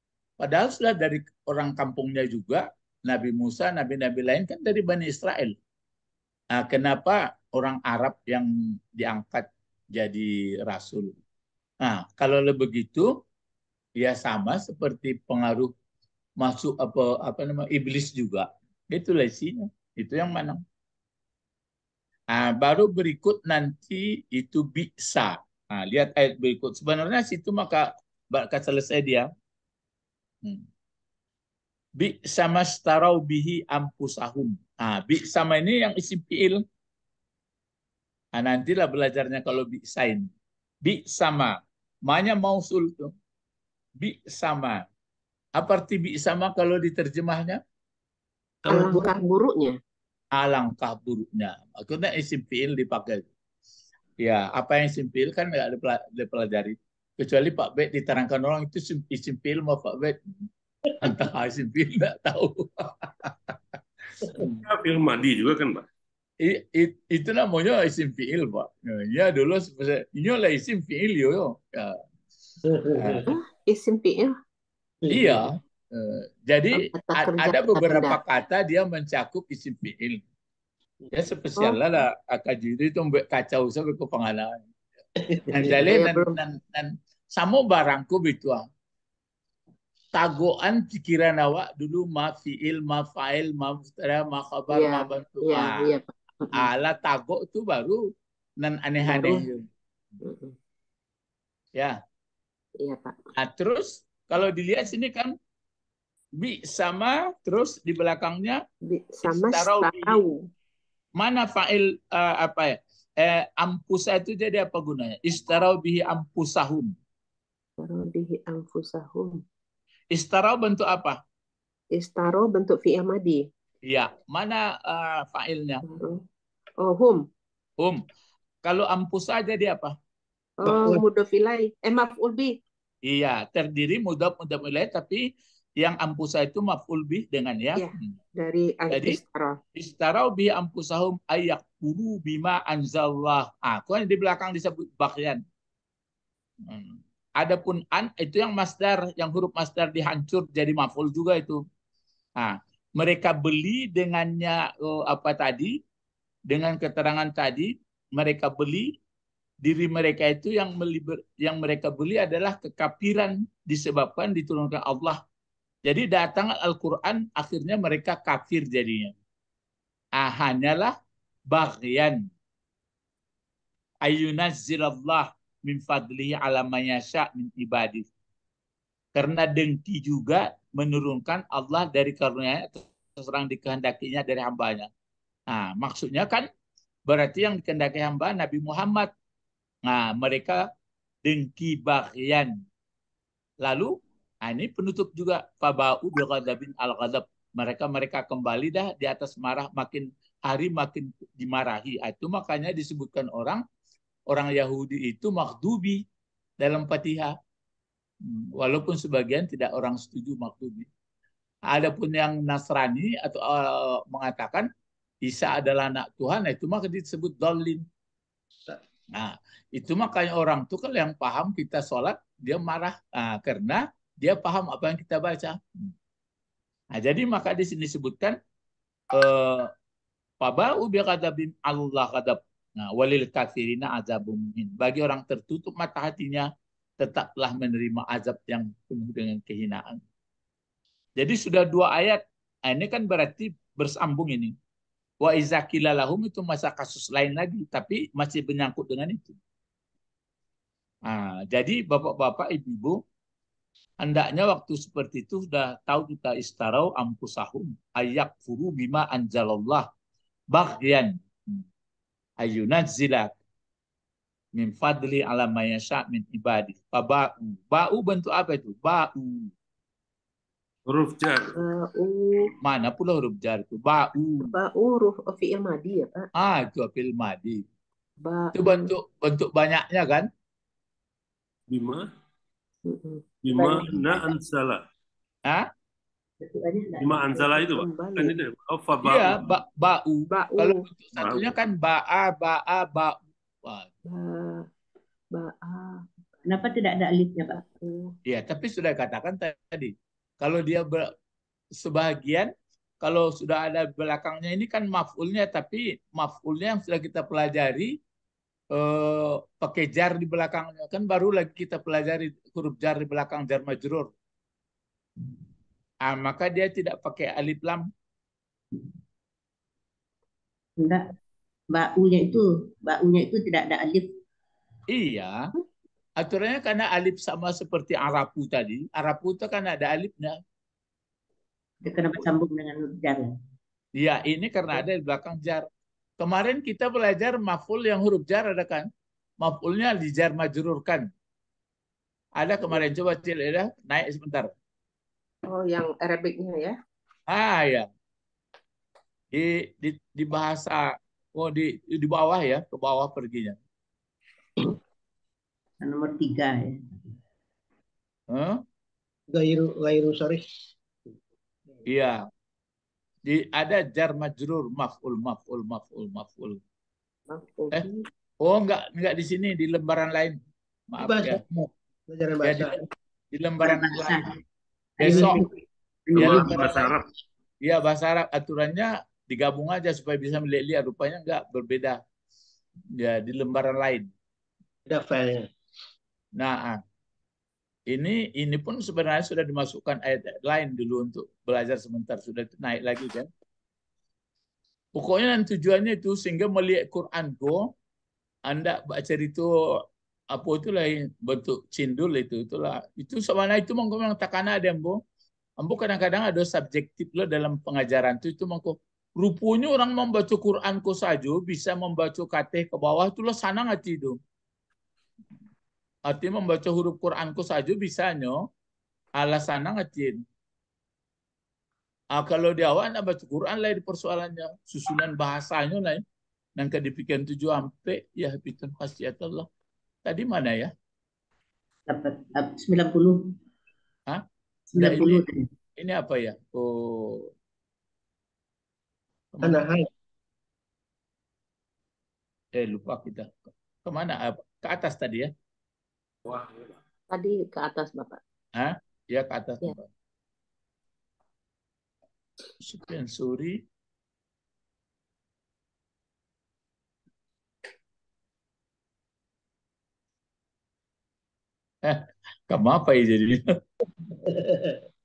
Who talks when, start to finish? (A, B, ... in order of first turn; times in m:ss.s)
0:00.4-0:05.6 A
0:06.6-0:11.2 A
0:11.8-0:13.1 A
0:14.0-0:15.7 A
0:16.4-0:20.6 A
0:22.3-0:29.3 A
0:32.0-0:36.6 A
0:38.4-0:40.3 A
0:40.8-0:41.6 A
0:42.1-0:43.1 A
0:44.0-0:44.8 A
0:45.6-0:47.6 A
0:48.6-0:49.2 B
0:48.7-0:49.8 C
0:50.4-0:53.2 A
0:54.2-1:00.2 A
1:01.0-1:03.6 A
1:04.2-1:04.6 A
1:04.4-1:05.9 D
1:06.4-1:12.0 A
1:12.6-1:13.3 B
1:13.0-1:13.4 A
1:13.3-1:14.3 C
1:15.0-1:15.5 B
1:15.1-1:20.2 A
1:16.7-1:18.2 C
1:21.1-1:24.6 A
1:25.2-1:25.8 B
1:25.5-1:28.6 A
1:25.8-1:26.4 C
1:30.1-1:35.8 A
1:34.7-1:36.7 C
1:36.5-1:38.0 A
1:38.6-1:39.6 A
1:39.2-1:39.4 C
1:40.2-1:40.6 C
1:42.8-1:43.2 C
1:43.4-1:45.3 A
1:46.4-1:48.6 A
1:48.9-1:50.4 C
1:49.2-1:50.2 A
1:51.2-1:56.9 A
1:57.8-1:59.4 C
2:00.1-2:01.2 A
2:02.0-2:03.4 C
2:03.9-2:05.8 A
2:05.8-2:06.2 C
2:06.8-2:07.2 C
2:08.6-2:10.0 A
2:10.6-2:12.6 C
2:10.6-2:11.0 B
2:13.1-2:15.2 A
2:15.8-2:18.2 A
2:17.8-2:19.6 C
2:18.9-2:19.2 A
2:19.8-2:25.4 A
2:26.7-2:31.6 A
2:32.4-2:35.8 A
2:36.5-2:38.9 A
2:39.6-2:45.2 A
2:45.8-2:49.1 A
2:50.2-2:50.9 A
2:51.5-2:52.3 A
2:54.0-2:58.1 A
2:59.2-3:04.9 A
3:05.5-3:06.5 A
3:07.1-3:09.1 A
3:09.9-3:10.6 A
3:11.2-3:12.6 A
3:13.6-3:23.6 A
3:24.3-3:26.0 A
3:26.6-3:27.4 A
3:28.2-3:30.9 A
3:31.7-3:34.7 A
3:35.3-3:37.8 A
3:39.1-3:45.9 A
3:47.0-3:48.4 A
3:49.2-3:49.7 A
3:50.4-3:56.5 A
3:57.0-4:00.0 A
4:01.2-4:04.5 A
4:05.2-4:09.4 A
4:11.1-4:13.0 A
4:14.0-4:19.9 A
4:20.5-4:21.6 A
4:22.4-4:23.3 A
4:24.6-4:29.5 A
4:30.9-4:31.6 D
4:31.6-4:32.6 C
4:32.6-4:34.5 A
4:34.4-4:36.3 C
4:36.4-4:37.6 A
4:38.2-4:38.9 C
4:38.5-4:40.3 A
4:41.7-4:42.1 D
4:42.9-4:44.3 C
4:43.4-4:44.8 D
4:46.4-4:47.3 E
4:47.0-4:49.6 D
4:47.3-4:48.4 C
4:49.0-4:53.9 A
4:50.3-4:50.8 C
4:51.2-4:51.5 D
4:54.0-4:54.7 C
4:55.3-4:56.7 C
4:56.5-4:57.6 E
4:57.6-4:58.1 C
4:58.3-5:01.1 A
5:01.8-5:02.5 A
5:03.0-5:08.0 A
5:08.7-5:14.1 A
5:16.0-5:17.8 A
5:20.8-5:21.1 E
5:21.7-5:24.1 E
5:24.9-5:25.4 A
5:26.2-5:30.4 A
5:31.8-5:33.3 E
5:34.0-5:35.7 A
5:36.2-5:38.9 A
5:39.4-5:41.1 A
5:42.4-5:44.5 A
5:45.5-5:46.8 C
5:47.3-5:47.9 A
5:49.3-5:53.6 A
5:55.8-5:56.8 E
5:58.3-5:58.6 A
5:59.3-6:00.4 B
6:01.9-6:02.2 A
6:03.3-6:06.6 A
6:07.3-6:08.0 C
6:08.4-6:10.4 A
6:10.9-6:11.4 A
6:11.0-6:12.8 B
6:12.4-6:12.7 A
6:13.3-6:14.2 A
6:13.6-6:14.3 E
6:15.0-6:15.5 E
6:15.0-6:15.4 A
6:15.1-6:15.3 B
6:16.1-6:17.0 D
6:16.1-6:16.6 E
6:16.2-6:16.9 A
6:17.6-6:22.0 A
6:23.0-6:24.1 A
6:24.9-6:25.5 B
6:26.4-6:26.8 A
6:27.9-6:33.3 A
6:35.0-6:37.7 A
6:38.5-6:45.0 A
6:45.6-6:54.2 A
6:56.1-6:58.4 A
6:59.2-7:00.2 A
7:02.1-7:06.0 A
7:06.6-7:09.5 A
7:10.0-7:10.7 A
7:11.9-7:13.3 E
7:14.7-7:15.5 E
7:14.8-7:15.2 A
7:15.8-7:17.3 A
7:19.3-7:19.7 A
7:19.4-7:19.9 B
7:22.6-7:25.3 A
7:26.2-7:26.7 D
7:27.1-7:28.2 C
7:28.6-7:29.9 A
7:32.6-7:33.6 A
7:41.8-7:43.4 A
7:44.2-7:44.8 B